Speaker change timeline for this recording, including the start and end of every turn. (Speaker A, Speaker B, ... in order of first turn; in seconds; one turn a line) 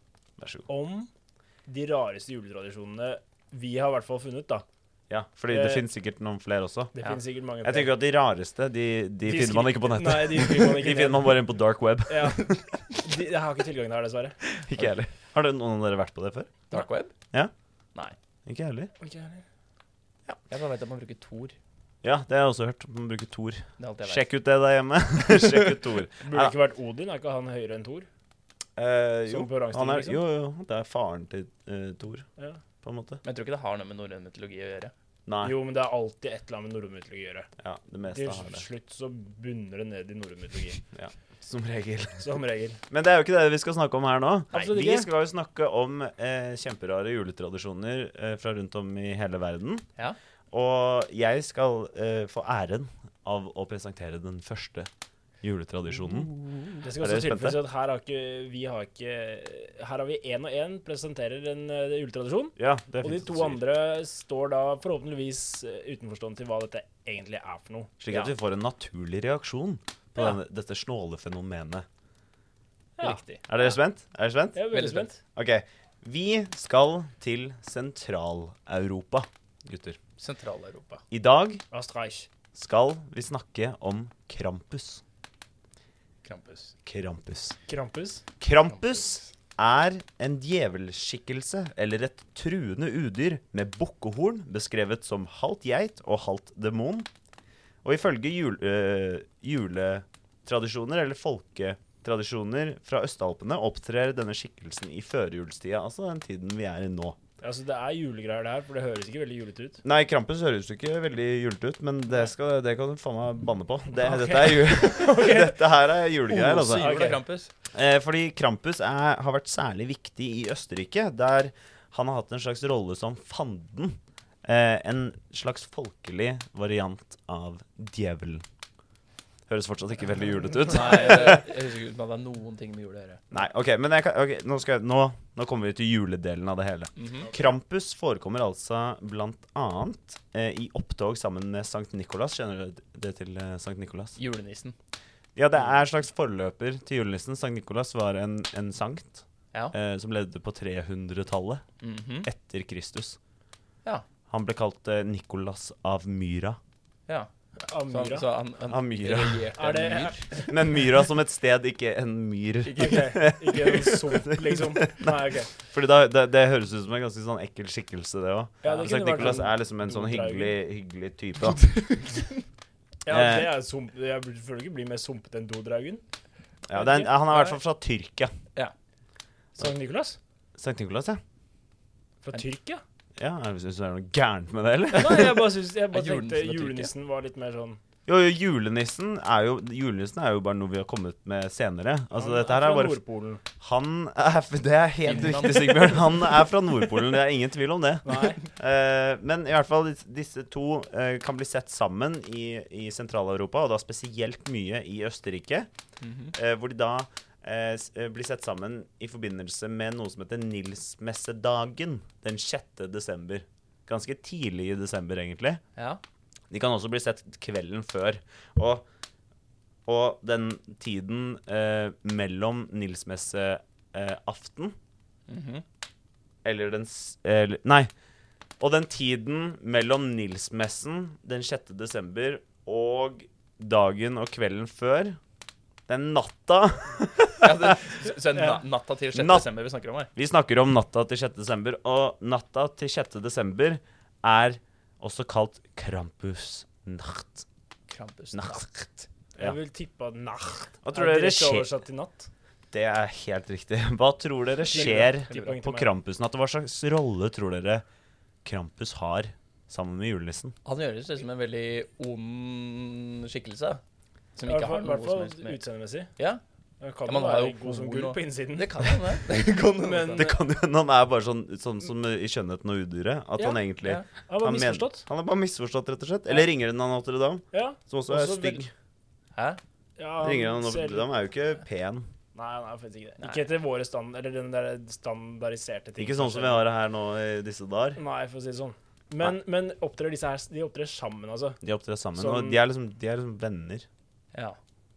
Speaker A: 0.4-0.7
Speaker B: 0.7-1.1
Speaker B: 1.7-4.7
Speaker A: 5.1-6.9
Speaker B: 5.5-5.8
Speaker B: 6.9-8.0
Speaker A: 7.6-12.6
Speaker B: 9.2-11.5
Speaker B: 12.1-14.4
Speaker A: 14.5-16.6
Speaker C: 16.7-17.1
Speaker A: 18.5-18.9
Speaker B: 19.0-19.4
Speaker C: 20.3-21.6
Speaker A: 22.0-26.5
Speaker C: 23.8-24.3
Speaker B: 26.2-28.1
Speaker A: 28.8-32.3
Speaker B: 29.3-30.2
Speaker A: 32.8-33.2
Speaker C: 33.2-34.9
Speaker A: 35.3-35.6
Speaker B: 35.4-37.5
Speaker A: 37.6-38.6
Speaker B: 38.1-40.8
Speaker A: 40.9-42.2
Speaker B: 42.2-42.8
Speaker A: 42.9-49.9
Speaker B: 44.5-45.1
Speaker A: 50.5-54.9
Speaker A: 55.4-56.3
Speaker B: 56.8-67.9
Speaker A: 57.0-57.6
Speaker A: 62.6-63.6
Speaker A: 68.0-71.9
Speaker B: 73.0-73.2
Speaker C: 73.0-73.8
Speaker A: 73.5-74.6
Speaker B: 74.5-75.2
Speaker C: 74.7-75.1
Speaker A: 75.3-80.0
Speaker C: 80.2-81.0
Speaker A: 81.1-81.6
Speaker B: 81.7-82.3
Speaker A: 82.5-85.0
Speaker C: 86.2-86.7
Speaker A: 86.8-87.6
Speaker B: 87.7-88.2
Speaker A: 88.4-97.1
Speaker C: 88.7-89.2
Speaker A: 97.8-107.2
Speaker B: 107.4-109.8
Speaker A: 109.8-116.9
Speaker B: 113.9-115.6
Speaker C: 116.3-117.5
Speaker B: 116.7-117.2
Speaker A: 117.7-128.4
Speaker A: 129.5-131.4
Speaker C: 130.7-133.2
Speaker A: 133.3-144.2
Speaker C: 137.0-137.3
Speaker C: 144.2-144.8
Speaker A: 145.4-151.6
Speaker C: 151.8-152.3
Speaker A: 152.2-153.2
Speaker A: 154.3-156.6
Speaker B: 157.6-158.3
Speaker C: 157.9-160.3
Speaker A: 158.7-159.5
Speaker B: 159.5-160.5
Speaker A: 160.4-171.7
Speaker C: 162.7-163.1
Speaker B: 162.7-165.6
Speaker B: 168.6-170.6
Speaker C: 171.4-172.4
Speaker B: 173.0-176.0
Speaker A: 173.1-173.5
Speaker A: 176.7-178.3
Speaker B: 176.7-177.6
Speaker B: 179.6-180.2
Speaker A: 180.6-181.2
Speaker B: 182.2-182.8
Speaker A: 183.2-185.5
Speaker B: 184.9-187.8
Speaker C: 185.9-186.9
Speaker A: 188.1-193.0
Speaker B: 192.2-193.4
Speaker A: 193.6-205.7
Speaker C: 195.0-196.1
Speaker B: 198.1-198.4
Speaker C: 206.0-206.3
Speaker A: 206.3-215.6
Speaker C: 215.8-216.0
Speaker A: 216.5-218.8
Speaker A: 219.9-224.8
Speaker C: 225.3-225.6
Speaker A: 226.4-227.9
Speaker A: 228.6-235.2
Speaker A: 235.9-237.5
Speaker C: 237.4-240.1
Speaker A: 239.1-239.5
Speaker A: 240.2-247.5
Speaker C: 247.9-249.1
Speaker A: 248.3-248.7
Speaker B: 249.4-252.3
Speaker A: 250.8-251.7
Speaker A: 252.7-257.9
Speaker B: 254.7-255.9
Speaker C: 254.7-255.5
Speaker A: 258.4-260.6
Speaker C: 260.6-263.8
Speaker C: 264.4-265.6
Speaker B: 264.4-266.1
Speaker B: 266.8-270.3
Speaker C: 267.1-270.3
Speaker A: 270.2-278.7
Speaker B: 273.4-275.1
Speaker B: 277.5-278.6
Speaker C: 279.4-279.6
Speaker B: 280.0-281.1
Speaker A: 280.2-282.1
Speaker B: 282.3-286.7
Speaker C: 283.2-283.5
Speaker A: 286.0-288.0
Speaker B: 288.0-291.6
Speaker A: 291.6-293.9
Speaker B: 292.1-292.6